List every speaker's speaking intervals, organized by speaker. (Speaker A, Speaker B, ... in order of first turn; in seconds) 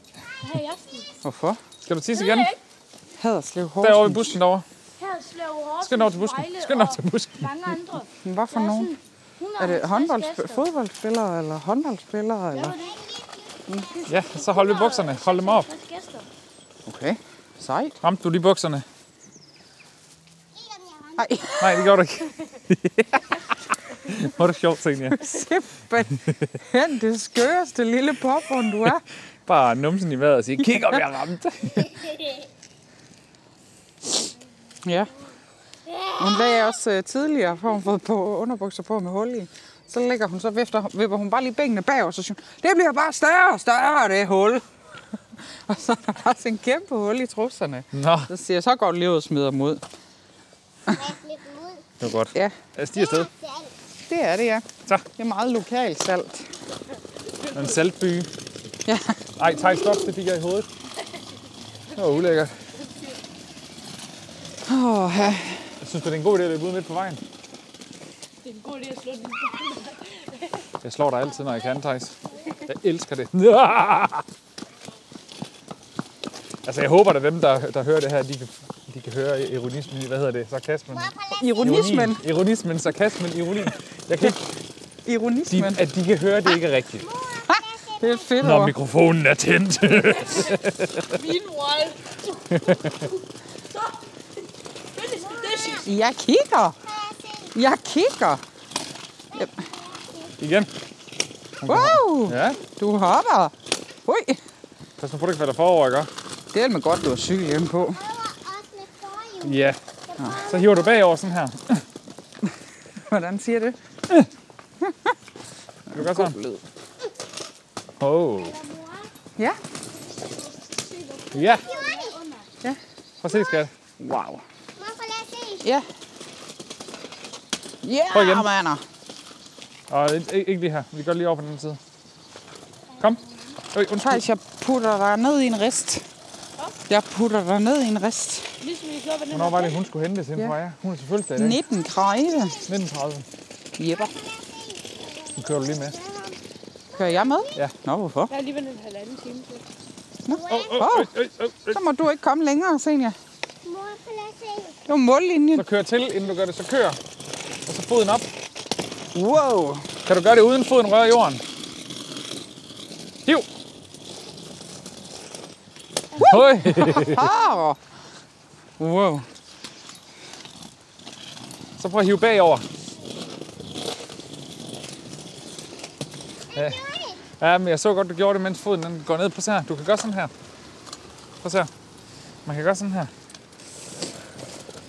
Speaker A: 0.4-1.1, 2.1-2.6, 5.0-10.7, 12.5-12.9, 13.9-16.3, 118.4-119.1, 120.0-122.5, 132.9-133.6, 146.1-146.4
Speaker B: 1.2-1.6, 3.2-4.4, 8.2-8.9, 9.6-12.8, 16.9-18.0, 21.2-21.9, 25.2-29.0, 30.6-31.0, 34.8-35.1, 36.2-44.6, 45.4-49.8, 54.1-56.5, 58.9-59.2, 64.7-65.7, 81.3-82.2, 85.0-85.8, 87.5-88.7, 95.8-96.8, 97.5-98.4, 101.6-103.5, 104.0-104.4, 106.5-108.0, 113.0-113.8, 114.8-115.1, 115.9-116.6, 124.0-124.4, 127.8-128.8, 133.9-136.0, 136.9-138.5, 141.3-142.6, 143.8-144.1, 146.9-148.3, 150.2-151.1, 151.7-153.2, 154.8-155.7, 159.1-159.9, 166.2-167.8, 168.8-169.3
Speaker C: 1.8-2.5, 3.8-4.6, 5.8-7.8, 14.1-15.7, 18.0-18.8, 21.6-23.2, 23.9-25.3, 29.4-32.1, 47.9-48.3, 52.0-53.3, 57.5-58.3, 59.4-60.7, 61.9-62.5, 65.8-67.2, 70.8-74.2, 76.6-84.4, 85.5-87.1, 88.4-91.1, 92.5-93.0, 100.4-100.7, 101.6-102.6, 105.0-106.1, 109.4-109.8, 110.3-111.8, 115.9-116.4, 118.0-118.6, 121.3-121.7, 123.2-123.7, 128.1-128.5, 129.9-131.8, 133.7-134.2, 139.3-141.6, 142.6-143.2, 145.3-145.9, 150.5-151.8, 155.5-157.0, 157.7-158.3, 160.1-161.4, 166.2-167.3, 171.8-172.7, 176.5-176.8, 177.4-180.3, 181.4-181.7, 182.4-183.1
Speaker D: 12.6-14.6, 20.5-21.9, 35.9-36.8, 50.9-51.9, 52.9-53.7, 72.3-72.6, 80.9-82.1, 86.9-88.6, 95.1-95.9, 96.8-97.5, 99.3-100.3, 107.9-111.0, 121.5-122.2, 123.2-123.6, 124.8-125.7, 141.7-142.8, 143.9-146.1, 146.9-147.6, 150.3-151.0, 153.6-154.8, 176.5-177.2
Speaker E: 57.3-57.8, 62.8-63.2, 68.4-70.7, 90.3-94.2, 94.9-95.9, 138.6-139.8, 148.3-149.6, 166.2-166.9